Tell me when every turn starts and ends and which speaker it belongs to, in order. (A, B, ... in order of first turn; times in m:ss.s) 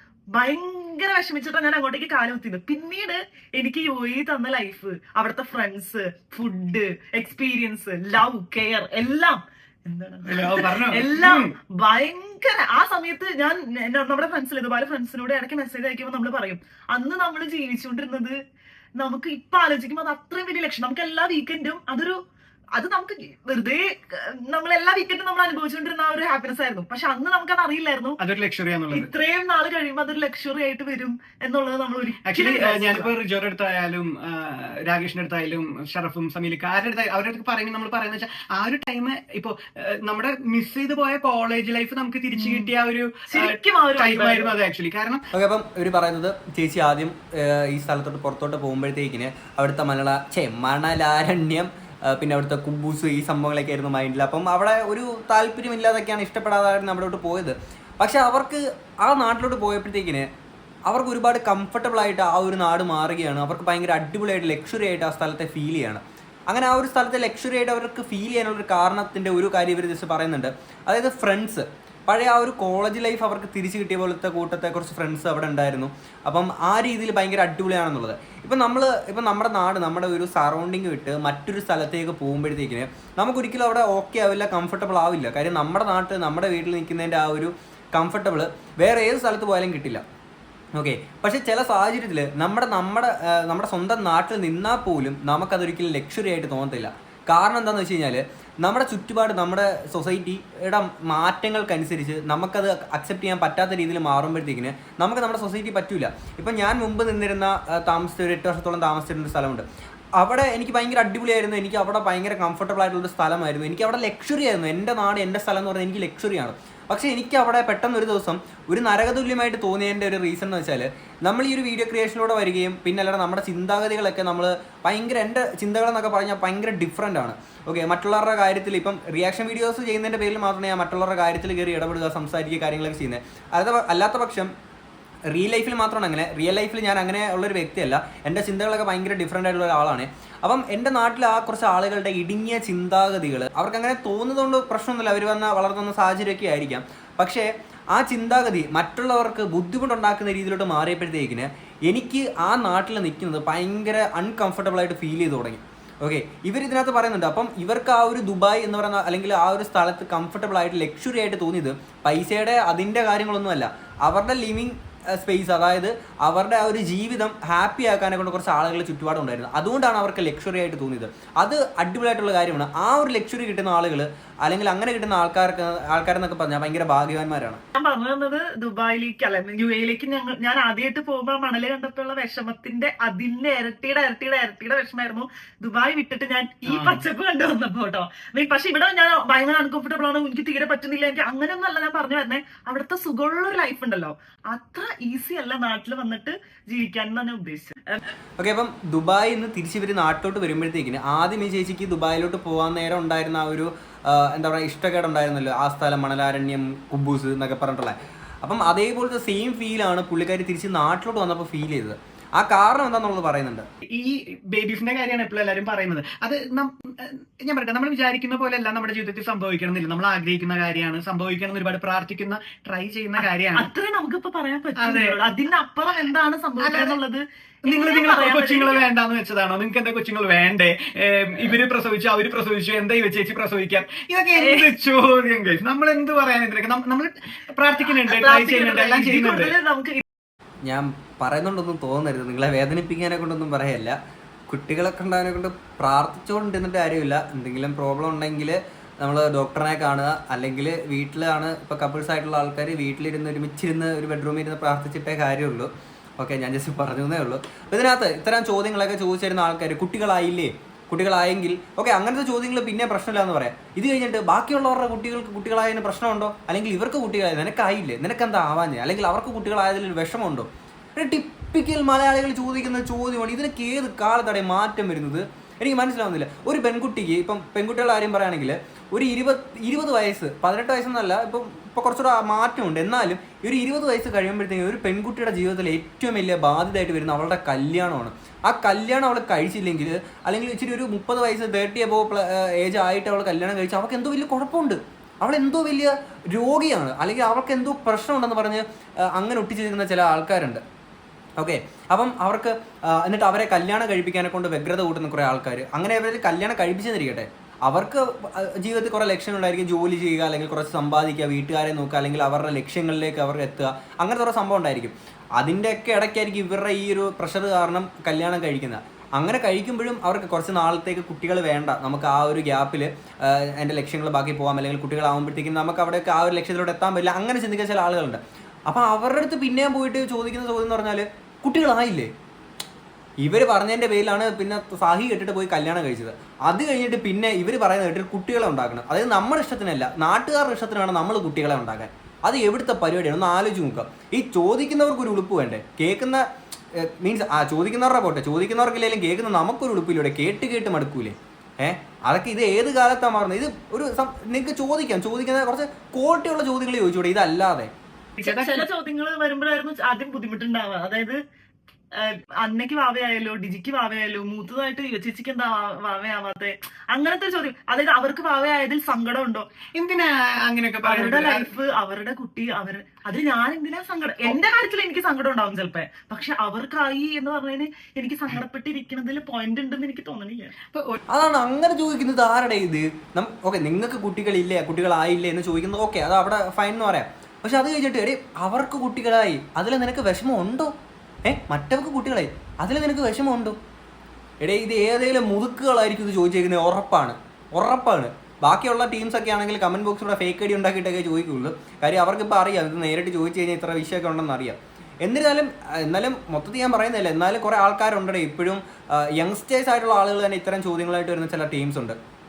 0:00.3-0:18.4 A
0:10.2-0:11.5 B
0:19.0-0:22.2 A
0:22.8-0:28.2 A
0:28.2-0:29.1 B
0:28.9-0:33.1 A
0:32.2-0:45.2 B
0:42.4-0:42.7 A
0:43.3-0:44.6 A
0:45.3-1:00.3 C
1:00.9-1:30.0 C
1:30.8-1:49.6 C
1:50.2-2:14.5 C
2:15.3-2:57.6 C
2:57.8-3:18.0 A
3:06.6-3:07.0 B
3:18.4-3:33.6 C
3:33.9-3:43.7 B
3:43.2-3:48.8 A
3:44.8-3:45.2 B
3:46.6-3:47.0 B
3:47.6-3:59.5 B
3:54.4-3:54.7 A
3:57.9-4:00.0 A
4:00.6-4:04.0 C
4:04.5-5:00.6 C
5:01.4-5:32.1 C
5:33.2-5:57.7 C
5:58.2-6:01.2 A
5:58.2-5:58.7 B
6:01.9-6:09.4 A
6:09.8-6:11.5 B
6:10.8-6:20.5 A
6:20.7-6:21.0 B
6:21.1-6:30.7 C
6:31.2-6:33.6 C
6:34.4-6:52.0 C